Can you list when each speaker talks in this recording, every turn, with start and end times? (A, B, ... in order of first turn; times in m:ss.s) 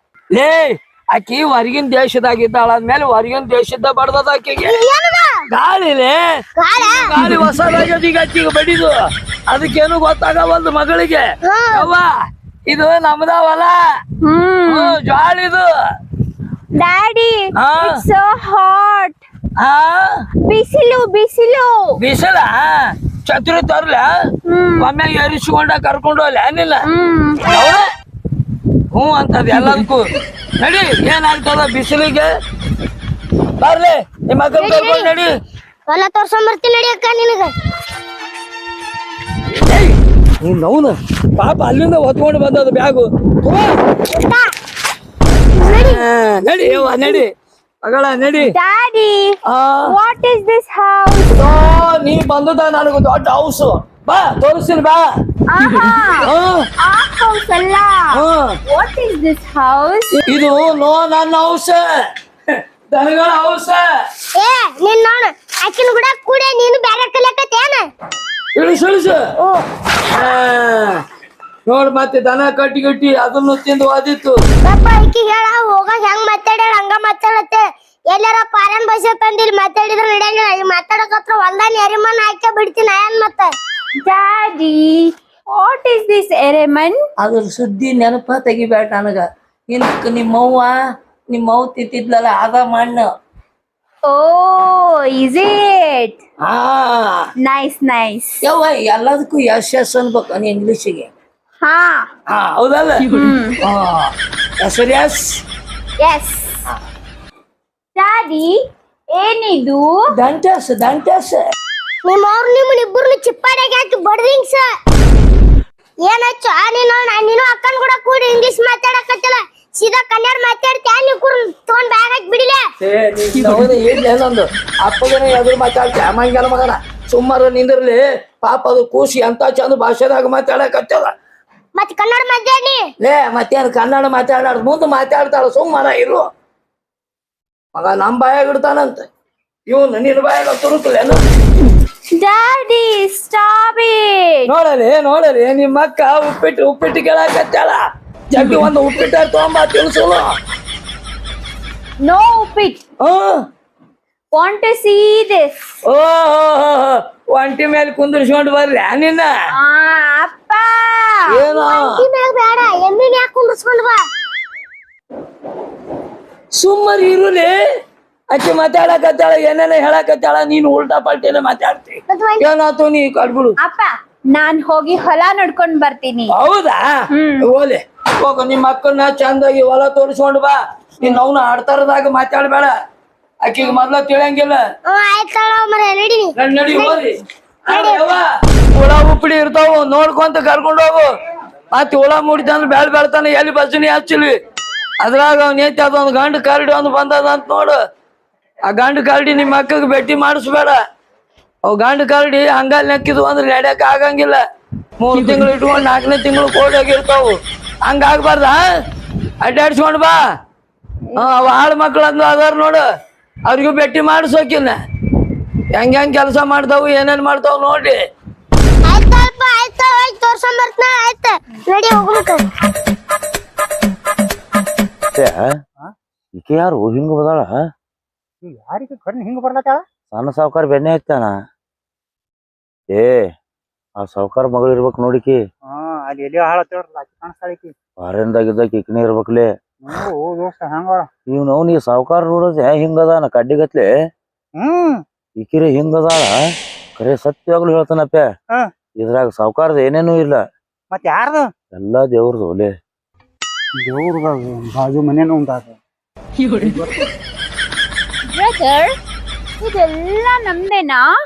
0:00.3-0:04.8 A
0:04.6-0:05.4 B
0:05.5-0:09.0 A
0:06.6-0:07.1 B
0:09.5-0:12.1 A
0:11.4-0:11.9 B
0:12.7-0:13.9 A
0:14.2-0:15.0 C
0:14.7-0:15.7 A
0:16.8-0:19.2 C
0:17.6-0:18.0 A
0:19.6-0:20.2 A
0:20.4-0:22.0 C
0:22.0-0:24.1 A
0:24.4-0:24.9 C
0:24.8-0:26.8 A
0:26.8-0:27.6 C
0:27.5-0:27.8 A
0:28.9-0:30.0 A
0:30.6-0:32.3 A
0:33.6-0:35.3 A
0:34.6-0:35.1 B
0:35.9-0:37.5 B
0:39.5-0:43.8 A
0:44.0-0:44.5 B
0:45.5-0:46.0 B
0:45.7-0:47.3 A
0:46.9-0:47.2 B
0:47.8-0:48.6 A
0:48.4-0:51.4 C
0:49.5-0:49.9 A
0:51.3-0:55.0 A
0:55.5-1:00.2 C
0:56.2-0:56.6 A
0:58.1-0:58.5 A
1:00.3-1:01.9 A
1:02.9-1:03.9 A
1:04.4-1:07.9 B
1:08.6-1:09.2 A
1:09.4-1:09.6 B
1:10.1-1:11.0 A
1:11.7-1:14.4 A
1:14.6-1:23.5 B
1:24.0-1:27.0 C
1:27.2-1:30.8 A
1:31.3-1:33.1 A
1:34.0-1:36.2 C
1:36.4-1:37.3 A
1:37.4-1:38.4 C
1:38.4-1:41.1 A
1:41.6-1:42.1 C
1:42.3-1:45.4 A
1:43.0-1:43.6 C
1:46.0-1:46.6 C
1:48.0-1:48.6 C
1:49.1-1:50.1 C
1:50.1-1:51.4 A
1:52.0-1:54.6 B
1:56.0-2:02.6 B
2:02.8-2:11.1 A
2:11.8-2:12.9 B
2:13.0-2:16.3 A
2:17.8-2:19.1 A
2:19.7-2:21.2 A
2:22.1-2:24.5 C
2:24.5-2:30.3 A
2:32.0-2:32.8 C
2:33.0-2:33.4 A
2:34.3-2:35.8 C
2:35.9-2:39.3 A
2:39.5-2:41.4 C
2:41.3-2:41.9 A
2:41.5-2:44.0 B
2:46.6-2:47.6 A
2:48.3-2:53.6 A
2:52.1-2:52.5 B
2:53.6-2:56.4 C
2:56.3-3:02.7 A
2:57.1-2:57.5 C
3:03.4-3:04.6 A
3:04.9-3:07.0 B
3:06.4-3:07.1 A
3:07.7-3:11.1 A
3:07.7-3:08.1 B
3:11.7-3:14.4 A
3:15.0-3:17.8 A
3:18.7-3:20.8 A
3:21.7-3:24.4 A
3:25.0-3:28.7 A
3:29.4-3:30.2 A
3:31.1-3:31.4 C
3:31.2-3:32.8 A
3:33.5-3:34.8 A
3:35.7-3:38.0 A
3:38.8-3:42.4 B
3:45.1-3:45.5 D
3:46.4-3:47.6 D
3:48.4-3:49.8 E
3:50.1-3:51.4 D
3:52.9-3:53.3 D
3:54.0-3:55.4 D
3:55.7-3:57.7 E
3:58.0-3:59.5 D
3:59.8-4:01.1 E
4:01.3-4:03.9 D
4:04.6-4:05.0 E
4:05.4-4:06.4 D
4:07.0-4:08.3 D
4:09.0-4:10.4 D
4:10.9-4:11.5 E
4:11.7-4:12.7 D
4:13.8-4:15.8 E
4:16.6-4:16.9 E
4:18.3-4:19.0 C
4:19.6-4:21.1 C